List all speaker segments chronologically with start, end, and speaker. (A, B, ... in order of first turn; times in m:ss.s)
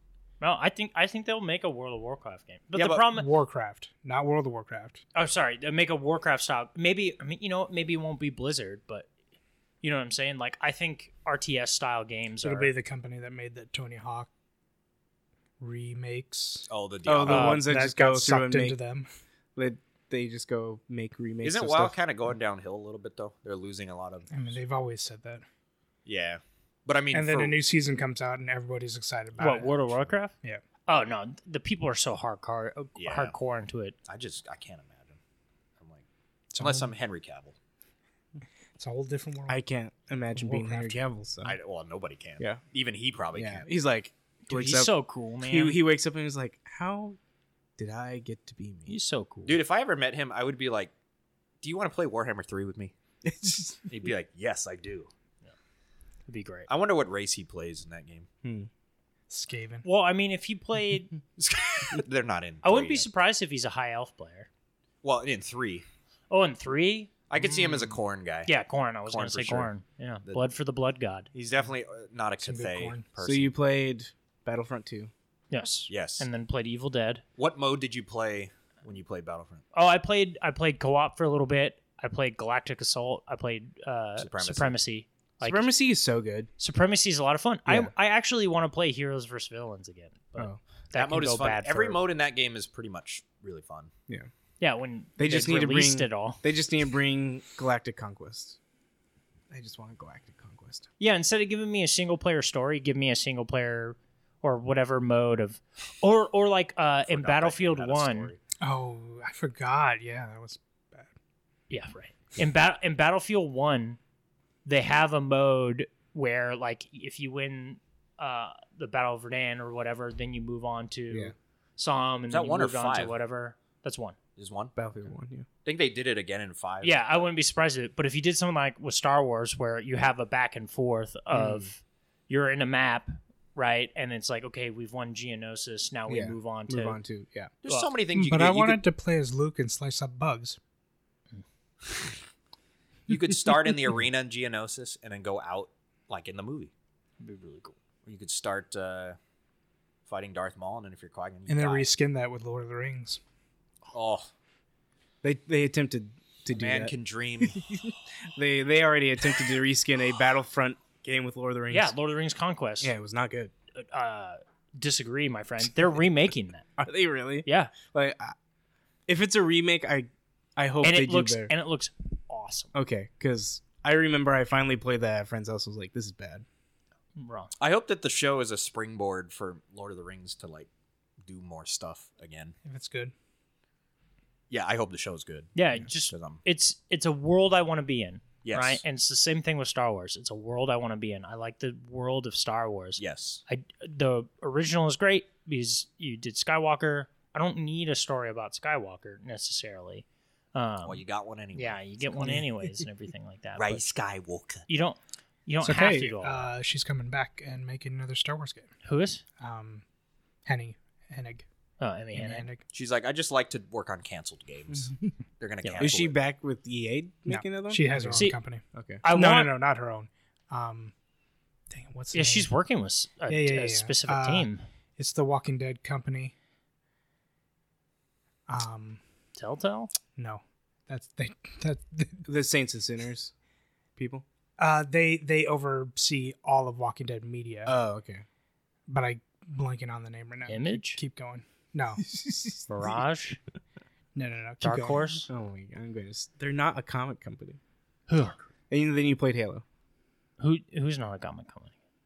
0:00.4-0:03.3 A
0:02.7-0:03.0 B
0:03.1-0:05.0 C
0:05.1-0:09.1 A
0:09.8-0:12.7 A
0:12.4-0:14.3 C
0:15.6-0:16.7 C
0:16.7-0:17.6 B
0:17.0-0:18.8 D
0:17.3-0:17.6 A
0:17.3-0:19.1 C
0:19.6-0:21.9 D
0:21.4-0:24.3 B
0:24.3-0:25.4 C
0:26.0-0:27.6 B
0:27.1-0:30.6 C
0:29.4-0:30.3 A
0:30.9-0:34.0 A
0:33.0-0:33.3 B
0:34.0-0:35.2 B
0:35.8-0:36.0 B
0:36.5-0:36.9 C
0:36.6-0:37.5 B
0:38.8-0:39.6 C
0:39.5-0:41.6 D
0:40.3-0:41.0 C
0:41.4-0:43.6 B
0:43.3-0:47.2 D
0:44.5-0:45.8 A
0:47.8-0:48.9 D
0:48.9-0:49.6 A
0:49.4-0:50.9 B
0:51.6-0:52.9 B
0:53.2-0:53.8 D
0:53.9-0:55.1 B
0:56.3-0:56.7 A
0:56.7-0:58.3 B
0:58.4-0:58.7 D
0:59.3-0:59.8 C
0:59.8-1:01.1 A
1:01.4-1:03.1 B
1:02.6-1:04.5 A
1:05.0-1:05.8 B
1:06.3-1:11.3 A
1:07.3-1:08.5 B
1:09.1-1:09.7 B
1:11.3-1:13.5 B
1:12.4-1:13.0 C
1:13.2-1:15.1 D
1:15.5-1:17.2 A
1:15.9-1:16.3 B
1:17.4-1:19.6 B
1:19.7-1:25.6 A
1:24.2-1:24.8 B
1:25.4-1:26.5 D
1:26.6-1:32.0 A
1:27.7-1:27.9 D
1:30.9-1:33.9 B
1:34.6-1:36.4 A
1:35.2-1:38.6 D
1:39.5-1:40.9 D
1:41.0-1:48.3 A
1:47.0-1:48.4 B
1:48.6-1:51.1 C
1:51.7-1:54.0 A
1:54.6-2:04.2 A
2:02.3-2:03.1 B
2:04.4-2:04.7 B
2:04.8-2:05.5 D
2:05.6-2:07.2 B
2:06.8-2:17.0 A
2:11.3-2:11.7 D
2:16.1-2:17.5 D
2:17.6-2:18.8 B
2:18.1-2:20.6 C
2:23.1-2:26.7 B
2:27.2-2:27.8 A
2:28.0-2:29.2 B
2:30.1-2:31.9 B
2:31.5-2:33.2 C
2:33.9-2:34.3 B
2:35.2-2:41.9 D
2:36.5-2:37.6 B
2:41.7-2:42.9 A
2:42.8-2:43.5 D
2:43.7-2:46.7 A
2:46.8-2:48.3 D
2:47.4-2:47.7 A
2:49.1-2:51.5 D
2:50.8-2:52.7 A
2:52.7-2:56.4 D
2:57.2-2:57.5 A
2:57.6-3:00.7 B
3:01.2-3:02.5 B
3:02.6-3:03.1 C
3:04.5-3:05.5 B
3:05.5-3:21.0 A
3:06.1-3:06.4 B
3:08.4-3:08.8 B
3:13.0-3:13.4 B
3:20.8-3:21.8 B
3:21.5-3:23.9 A
3:23.5-3:24.6 B
3:24.7-3:26.5 A
3:25.6-3:28.7 C
3:28.8-3:29.2 A
3:29.4-3:29.8 C
3:30.4-3:31.4 C
3:31.8-3:32.5 A
3:32.1-3:32.6 C
3:32.7-3:36.1 B
3:34.7-3:35.1 D
3:35.6-3:35.9 A
3:35.8-3:39.0 D
3:37.3-3:40.9 C
3:39.0-3:39.5 A
3:41.7-3:42.5 C
3:42.1-3:44.6 A
3:43.3-3:46.3 C
3:48.5-3:49.0 C
3:49.4-3:49.9 A
3:50.1-3:52.3 C
3:52.3-3:53.3 D
3:54.0-3:54.2 D
3:54.6-3:57.7 C
3:57.6-3:58.2 D
3:58.9-4:02.0 C
4:00.5-4:01.0 A
4:02.0-4:02.7 D
4:02.7-4:03.4 A
4:04.1-4:05.2 C
4:04.6-4:05.3 A
4:05.3-4:07.6 D
4:08.1-4:08.4 A
4:08.7-4:09.6 D
4:10.4-4:11.7 A